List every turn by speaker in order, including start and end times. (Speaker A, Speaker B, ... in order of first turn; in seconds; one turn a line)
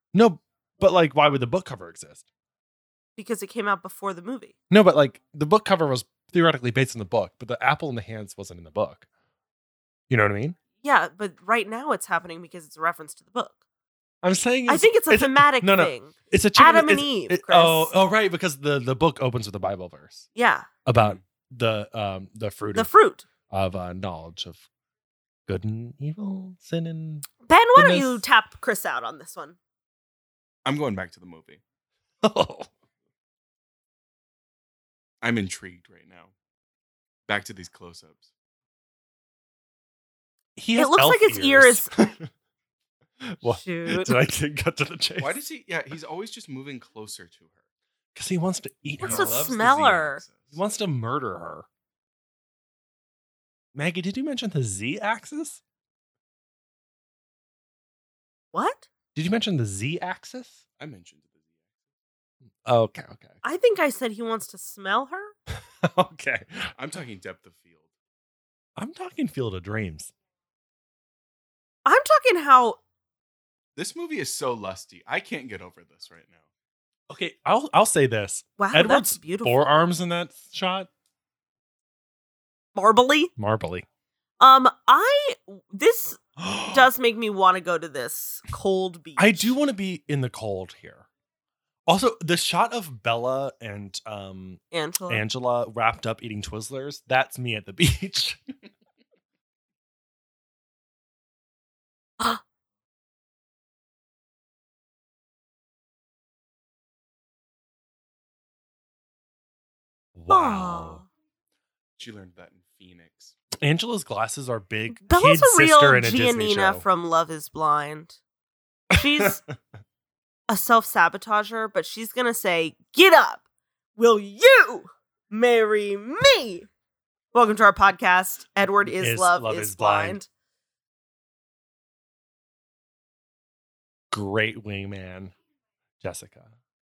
Speaker A: 0.1-2.2
Speaker B: 3.2-4.5
Speaker A: 4.7-9.1
Speaker A: 10.1-10.6
Speaker B: 10.8-13.6
Speaker A: 14.2-20.2
Speaker B: 14.7-17.9
Speaker B: 20.3-20.7
Speaker A: 20.9-22.9
Speaker B: 22.7-23.2
Speaker A: 23.5-24.6
Speaker A: 25.5-28.2
Speaker B: 27.4-29.6
Speaker C: 30.6-31.6
Speaker A: 32.2-32.7
Speaker C: 35.2-36.3
Speaker C: 37.3-38.3
Speaker A: 40.5-42.3
Speaker B: 40.8-41.9
Speaker A: 43.2-45.4
Speaker B: 43.4-44.2
Speaker C: 45.2-47.5
Speaker A: 48.1-49.5
Speaker C: 49.0-50.5
Speaker B: 49.0-50.2
Speaker A: 50.5-51.6
Speaker A: 53.7-55.6
Speaker B: 58.5-58.9
Speaker A: 59.1-60.6
Speaker C: 60.8-61.4
Speaker A: 62.6-63.4
Speaker B: 63.4-65.3
Speaker A: 65.5-66.7
Speaker C: 66.8-67.9
Speaker A: 68.8-70.1
Speaker B: 71.8-72.8
Speaker C: 73.8-76.4
Speaker A: 77.1-80.9
Speaker B: 78.6-79.6
Speaker B: 82.7-83.3
Speaker A: 83.4-83.8
Speaker B: 84.4-89.5
Speaker A: 86.4-86.8
Speaker A: 89.2-91.0
Speaker A: 91.9-98.4
Speaker B: 94.7-95.2
Speaker A: 110.2-111.0
Speaker B: 110.3-111.1
Speaker C: 112.0-113.3
Speaker A: 113.6-116.8
Speaker B: 115.0-118.2
Speaker A: 118.9-119.4
Speaker B: 118.9-119.4
Speaker B: 120.5-123.4
Speaker B: 124.0-126.7
Speaker B: 127.3-130.3
Speaker A: 128.8-130.2
Speaker A: 134.1-135.3
Speaker A: 136.0-136.5